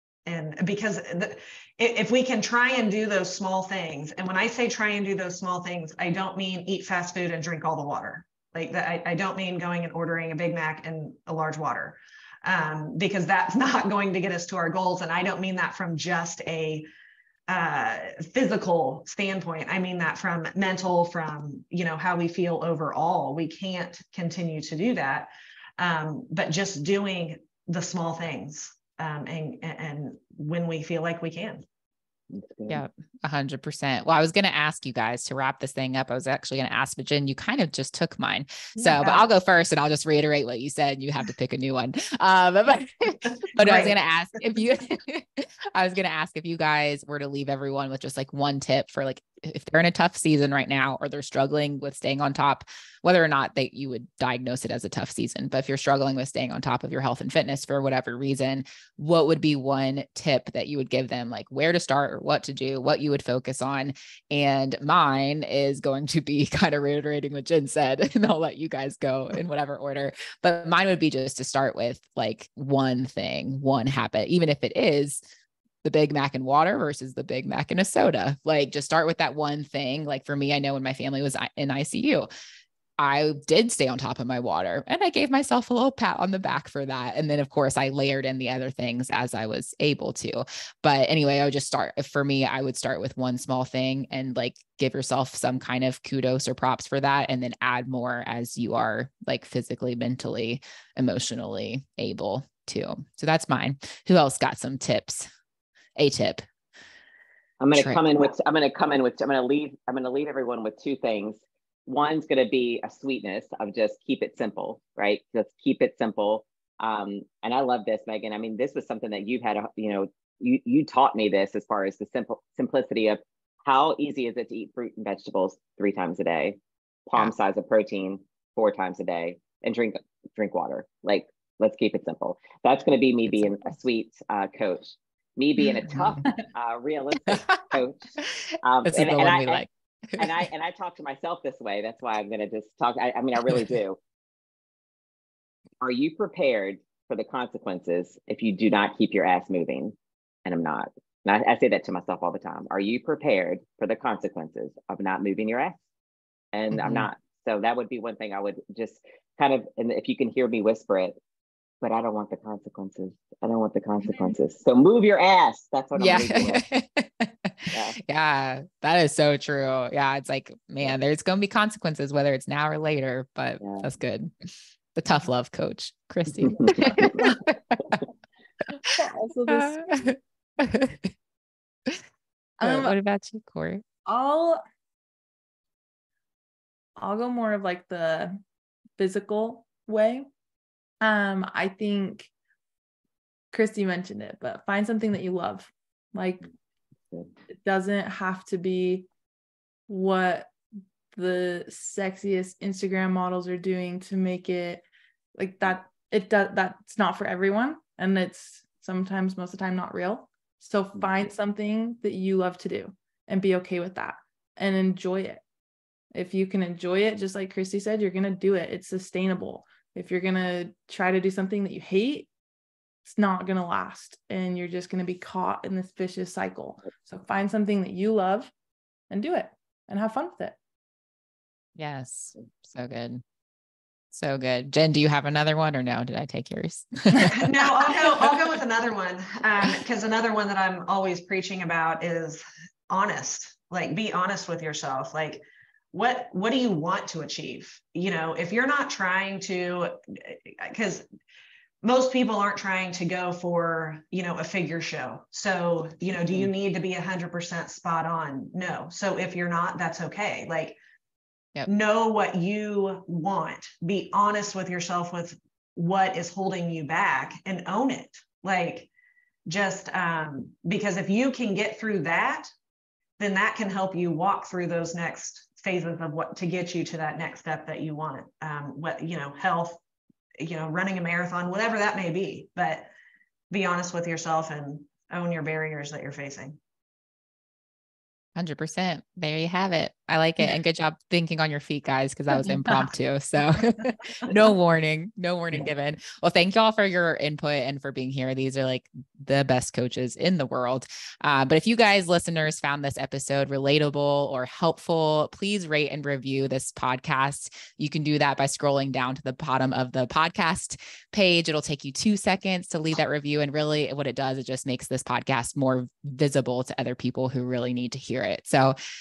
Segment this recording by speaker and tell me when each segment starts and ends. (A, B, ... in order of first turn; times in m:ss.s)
0:00.2-0:16.8 A
0:17.5-0:31.6 A
0:32.3-0:32.8 B
0:32.7-1:15.2 C
0:38.8-0:39.2 A
0:43.2-0:44.0 A
1:15.8-1:22.3 C
1:23.0-1:45.3 C
1:46.0-1:46.4 C
1:47.6-2:18.1 B
1:47.7-1:48.0 C
2:15.9-2:16.2 C
2:18.2-2:20.4 C
2:18.6-2:19.6 B
2:20.2-2:24.0 B
2:25.8-2:29.9 B
2:30.4-2:35.8 B
2:36.5-2:41.1 B
2:36.7-2:37.1 C
2:41.8-2:46.6 B
2:44.1-2:44.3 D
2:46.0-2:58.0 C
2:53.6-2:53.8 B
2:56.4-2:57.2 B
2:58.8-3:00.1 D
2:59.5-3:01.1 C
3:02.6-3:03.0 D
3:02.6-3:03.8 C
3:04.0-3:04.6 D
3:07.0-3:08.4 D
3:09.0-3:10.2 D
3:11.0-3:12.3 D
3:13.5-3:16.5 D
3:17.5-3:19.0 D
3:19.9-3:20.5 D
3:21.1-3:24.8 D
3:25.4-3:35.4 D
3:36.1-3:42.3 D
3:43.0-3:48.5 D
3:49.1-3:50.6 D
3:51.8-3:53.2 C
3:54.1-3:57.4 C
3:57.3-4:05.4 A
4:05.9-4:11.0 A
4:11.8-4:20.8 A
4:21.7-4:28.9 A
4:29.5-4:32.5 A
4:33.2-4:39.8 A
4:40.4-4:42.9 A
4:43.5-4:46.6 A
4:48.4-5:18.8 C